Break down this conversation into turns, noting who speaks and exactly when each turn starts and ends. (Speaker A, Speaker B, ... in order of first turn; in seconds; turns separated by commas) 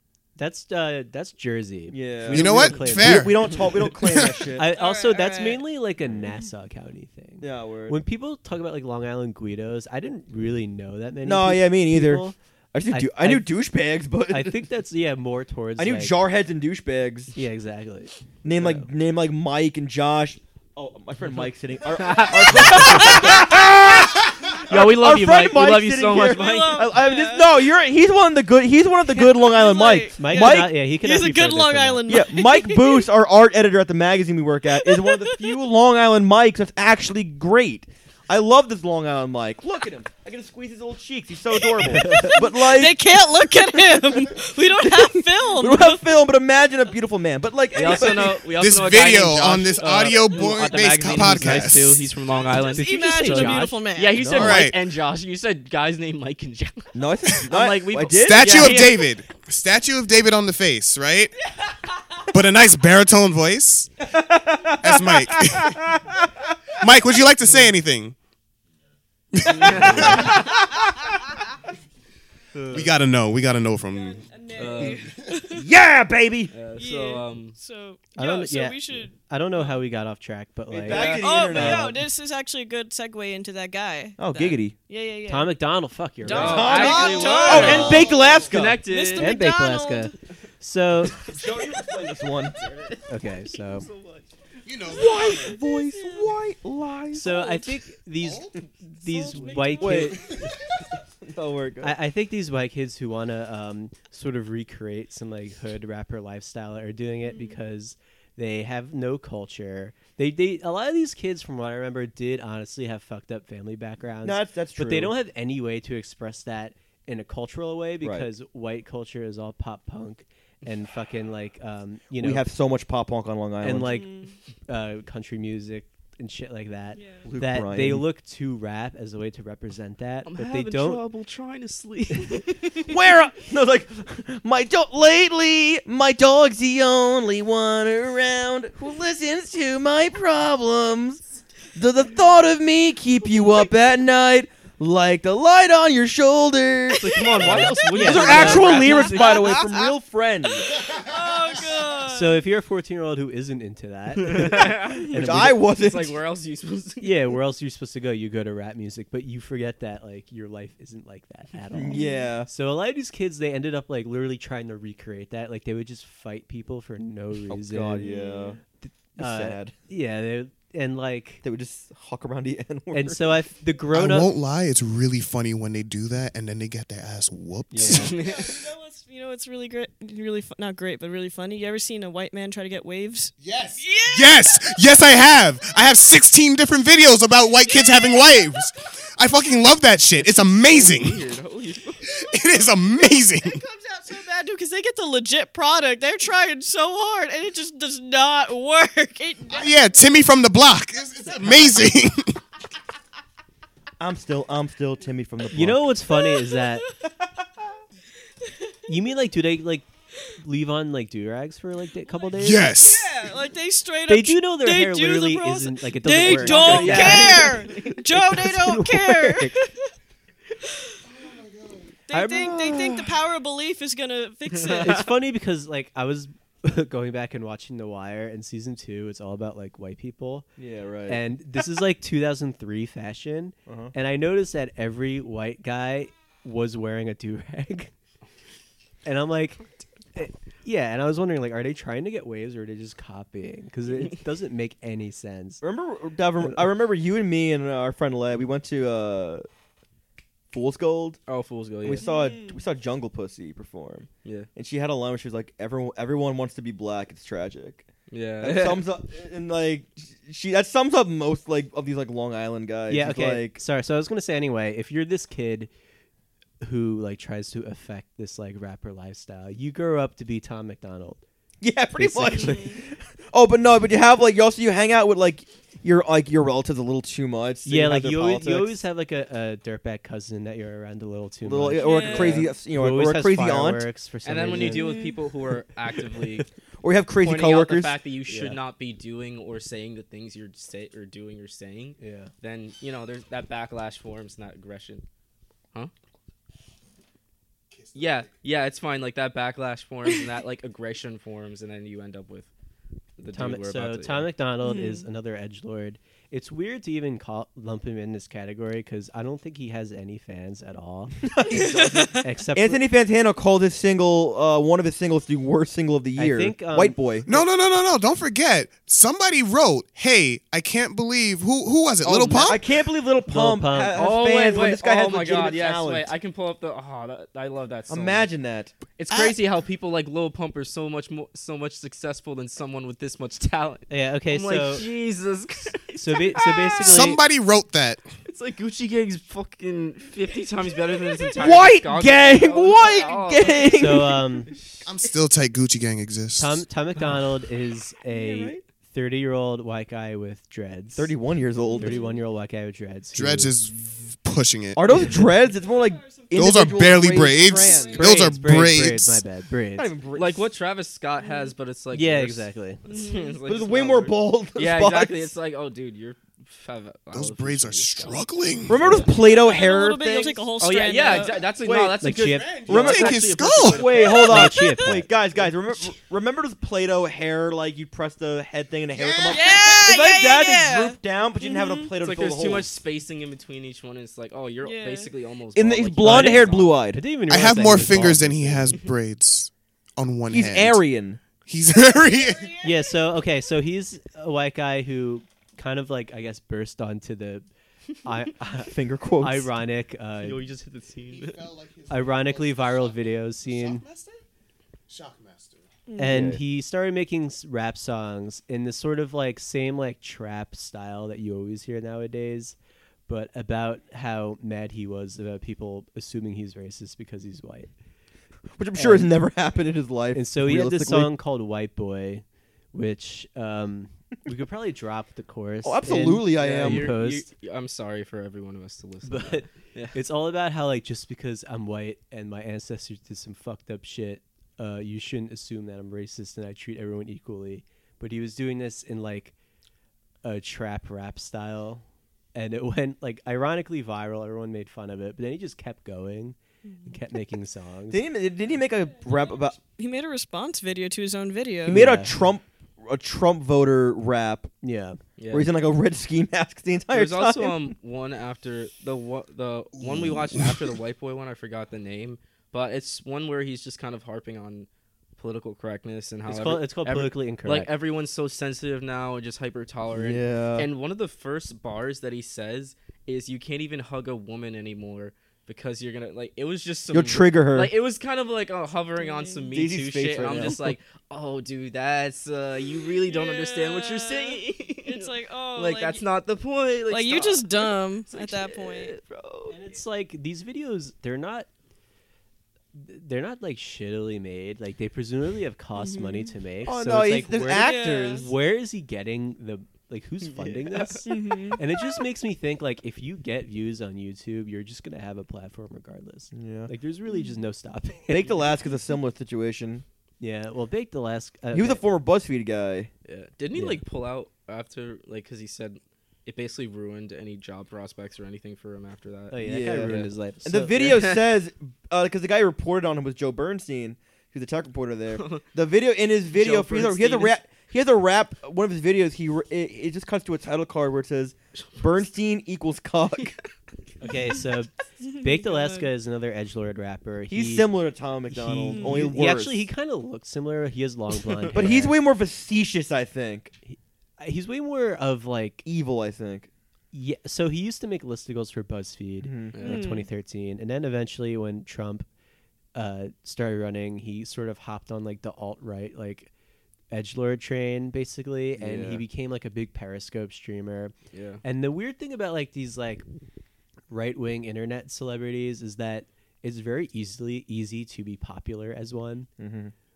Speaker A: 0.3-3.9, Speaker B: 1.9-4.7, Speaker C: 2.3-3.9, Speaker A: 4.5-12.3, Speaker D: 4.7-5.7, Speaker B: 7.4-8.0, Speaker B: 11.2-14.6, Speaker A: 12.9-13.6, Speaker A: 14.3-16.1, Speaker B: 15.8-17.3, Speaker A: 17.3-18.9, Speaker B: 18.4-30.8, Speaker E: 21.9-23.6, Speaker E: 24.6-26.9, Speaker D: 26.2-27.5, Speaker D: 29.1-33.1, Speaker A: 30.2-32.0, Speaker B: 32.1-43.0, Speaker D: 34.8-35.5, Speaker A: 41.9-42.4, Speaker D: 42.4-46.0, Speaker B: 44.8-48.4, Speaker E: 47.7-59.1, Speaker C: 48.6-52.1, Speaker A: 51.3-51.7, Speaker D: 52.5-54.3, Speaker A: 52.7-53.8, Speaker B: 54.2-54.6, Speaker C: 54.3-54.8, Speaker B: 56.9-58.8, Speaker C: 58.2-61.3, Speaker C: 62.3-63.9, Speaker B: 64.3-66.0, Speaker C: 64.8-65.9, Speaker C: 66.8-68.1, Speaker C: 69.3-70.6, Speaker E: 69.4-70.5, Speaker E: 72.5-72.9, Speaker C: 72.7-74.2, Speaker D: 73.9-75.7, Speaker E: 74.5-75.1, Speaker B: 75.5-76.5, Speaker E: 76.5-77.5, Speaker D: 76.8-79.2, Speaker A: 78.1-81.9, Speaker B: 80.7-82.0, Speaker E: 80.9-81.3, Speaker D: 81.0-85.5, Speaker B: 84.2-84.7, Speaker A: 85.3-87.0, Speaker E: 86.2-89.3, Speaker B: 86.3-88.8, Speaker D: 86.3-90.1, Speaker C: 87.3-87.9, Speaker A: 87.5-87.9, Speaker A: 89.2-91.2, Speaker B: 91.2-92.6, Speaker E: 92.6-94.2, Speaker A: 93.1-93.9, Speaker C: 94.7-95.4, Speaker D: 94.9-96.3, Speaker B: 94.9-97.4, Speaker A: 97.1-100.3, Speaker C: 98.2-98.5, Speaker D: 99.0-100.1, Speaker B: 99.7-100.4, Speaker B: 101.2-102.0, Speaker A: 101.8-122.5, Speaker D: 107.2-107.6, Speaker B: 114.2-115.1, Speaker B: 118.0-118.3, Speaker B: 122.2-124.0, Speaker A: 123.6-131.0, Speaker D: 123.9-124.3, Speaker D: 126.9-127.2, Speaker B: 127.2-128.1, Speaker E: 130.2-132.8, Speaker B: 132.8-141.2, Speaker B: 141.8-150.7, Speaker E: 147.0-149.5, Speaker A: 147.4-149.0, Speaker D: 148.8-149.9, Speaker D: 150.6-152.4, Speaker A: 152.1-155.6, Speaker E: 154.2-157.3, Speaker B: 155.1-156.2, Speaker A: 157.0-168.1, Speaker B: 161.7-162.5, Speaker D: 161.9-162.3, Speaker B: 167.5-168.6, Speaker D: 168.0-168.6, Speaker A: 168.8-171.4, Speaker B: 169.2-169.7, Speaker B: 171.4-173.5, Speaker A: 172.9-174.3, Speaker C: 173.9-178.2, Speaker A: 177.7-178.1, Speaker E: 177.8-178.6, Speaker D: 177.9-185.0, Speaker C: 183.4-191.2, Speaker D: 187.6-188.4, Speaker E: 190.7-192.0, Speaker C: 192.0-193.6, Speaker D: 193.0-199.8, Speaker C: 199.5-202.4, Speaker B: 204.0-205.9, Speaker A: 205.5-206.8, Speaker D: 206.2-206.8, Speaker D: 208.4-208.7, Speaker A: 208.9-209.8, Speaker A: 210.4-212.7, Speaker C: 212.4-213.3, Speaker D: 212.6-219.9, Speaker A: 214.1-219.5, Speaker E: 216.3-217.9, Speaker C: 221.2-221.8, Speaker D: 222.1-225.1, Speaker A: 222.1-222.6, Speaker E: 224.5-225.1, Speaker A: 224.8-230.4, Speaker B: 230.6-231.2, Speaker A: 231.1-237.9, Speaker B: 233.7-233.9, Speaker A: 239.0-239.6, Speaker A: 240.1-245.6, Speaker B: 245.6-249.4, Speaker B: 250.5-251.2, Speaker E: 251.3-252.1, Speaker B: 251.8-257.9, Speaker D: 252.0-252.6, Speaker E: 258.1-258.9, Speaker B: 258.4-263.6, Speaker A: 262.9-265.7, Speaker A: 266.6-271.2, Speaker B: 271.6-278.8, Speaker A: 271.9-272.7, Speaker D: 272.4-272.8, Speaker A: 277.6-284.9, Speaker B: 281.4-283.9, Speaker D: 281.8-282.4, Speaker E: 282.1-282.4, Speaker E: 284.2-286.5, Speaker D: 284.6-285.2, Speaker B: 286.8-288.0, Speaker E: 287.2-295.0, Speaker A: 288.3-288.6, Speaker A: 292.0-292.3, Speaker E: 297.9-302.5, Speaker E: 303.2-304.3, Speaker A: 303.3-312.8, Speaker D: 304.6-305.1, Speaker B: 311.2-317.3, Speaker D: 311.5-312.2, Speaker A: 316.1-317.4, Speaker C: 317.2-322.6, Speaker E: 322.1-322.5, Speaker B: 322.4-326.1, Speaker A: 323.3-324.0, Speaker E: 323.9-328.3, Speaker B: 327.9-328.7, Speaker E: 328.9-337.1, Speaker A: 333.9-334.8, Speaker A: 335.9-337.2, Speaker C: 336.8-338.0, Speaker E: 338.2-344.8, Speaker B: 341.3-344.2, Speaker A: 343.7-344.5, Speaker C: 344.8-346.6, Speaker A: 346.4-351.1, Speaker B: 348.3-348.6, Speaker B: 350.9-352.0, Speaker D: 351.6-352.2, Speaker A: 351.8-353.5, Speaker C: 353.1-355.1, Speaker B: 354.8-358.3, Speaker D: 355.6-358.1, Speaker C: 356.3-359.2, Speaker A: 358.0-359.9, Speaker B: 359.8-360.5, Speaker E: 360.1-368.2, Speaker D: 361.2-361.5, Speaker A: 361.9-362.8, Speaker D: 362.8-363.4, Speaker B: 363.4-365.3, Speaker C: 367.1-369.0, Speaker B: 368.7-370.5, Speaker A: 368.8-369.1, Speaker D: 369.1-371.5, Speaker E: 370.6-374.3, Speaker B: 371.0-382.7, Speaker A: 372.0-372.8, Speaker C: 372.2-374.1, Speaker D: 374.1-374.9, Speaker A: 374.2-375.1, Speaker C: 379.0-379.9, Speaker D: 379.2-381.9, Speaker E: 382.0-386.8, Speaker D: 384.6-385.1, Speaker B: 385.5-387.0, Speaker A: 386.0-388.8, Speaker C: 387.3-390.8, Speaker B: 390.3-391.2, Speaker C: 391.4-392.5, Speaker D: 391.9-392.8, Speaker A: 392.6-397.4, Speaker A: 398.0-400.4, Speaker B: 398.6-399.5, Speaker E: 400.2-401.5, Speaker C: 401.1-404.2, Speaker A: 401.9-403.8, Speaker C: 404.9-405.6, Speaker D: 405.9-406.3, Speaker A: 406.0-412.6, Speaker B: 406.1-406.4, Speaker A: 413.1-417.7, Speaker B: 418.6-421.1, Speaker A: 418.7-419.1, Speaker A: 420.1-427.3, Speaker B: 425.6-426.9, Speaker E: 426.4-430.0, Speaker A: 429.0-439.3, Speaker A: 440.2-441.8, Speaker A: 442.3-448.0, Speaker D: 446.6-447.0, Speaker B: 447.9-449.6, Speaker D: 449.1-451.9, Speaker A: 451.7-452.2, Speaker B: 451.7-454.5, Speaker A: 454.6-455.0, Speaker E: 455.2-455.5, Speaker B: 455.3-457.7, Speaker E: 456.9-489.0, Speaker A: 466.2-467.7, Speaker B: 469.9-470.7, Speaker B: 476.9-477.7, Speaker D: 479.0-479.5, Speaker B: 479.5-480.7, Speaker D: 483.0-486.0, Speaker D: 486.9-488.9, Speaker B: 489.0-489.5, Speaker A: 489.5-491.5, Speaker A: 492.7-508.4, Speaker D: 495.8-496.3, Speaker B: 496.6-498.3, Speaker D: 497.5-498.3, Speaker E: 500.2-501.1, Speaker D: 501.0-501.6, Speaker B: 506.3-506.7, Speaker D: 507.1-507.4, Speaker B: 508.1-509.8, Speaker A: 510.2-511.8, Speaker B: 511.5-512.9, Speaker E: 513.0-520.1, Speaker A: 513.5-513.8, Speaker A: 519.3-520.9, Speaker B: 519.4-533.4, Speaker E: 520.8-521.2, Speaker E: 525.1-525.4, Speaker E: 526.3-527.3, Speaker E: 533.2-533.5, Speaker A: 534.0-537.7, Speaker D: 535.0-535.9, Speaker B: 537.3-539.7, Speaker A: 538.3-541.9, Speaker D: 538.7-539.0, Speaker B: 541.5-543.5, Speaker A: 543.7-545.6, Speaker B: 545.6-546.5, Speaker A: 546.9-552.1, Speaker B: 549.2-549.6, Speaker E: 549.5-549.9, Speaker D: 549.6-550.1, Speaker A: 552.7-556.3, Speaker A: 556.9-563.0, Speaker E: 558.6-559.0, Speaker E: 561.1-561.4, Speaker A: 563.9-569.3, Speaker B: 569.4-569.7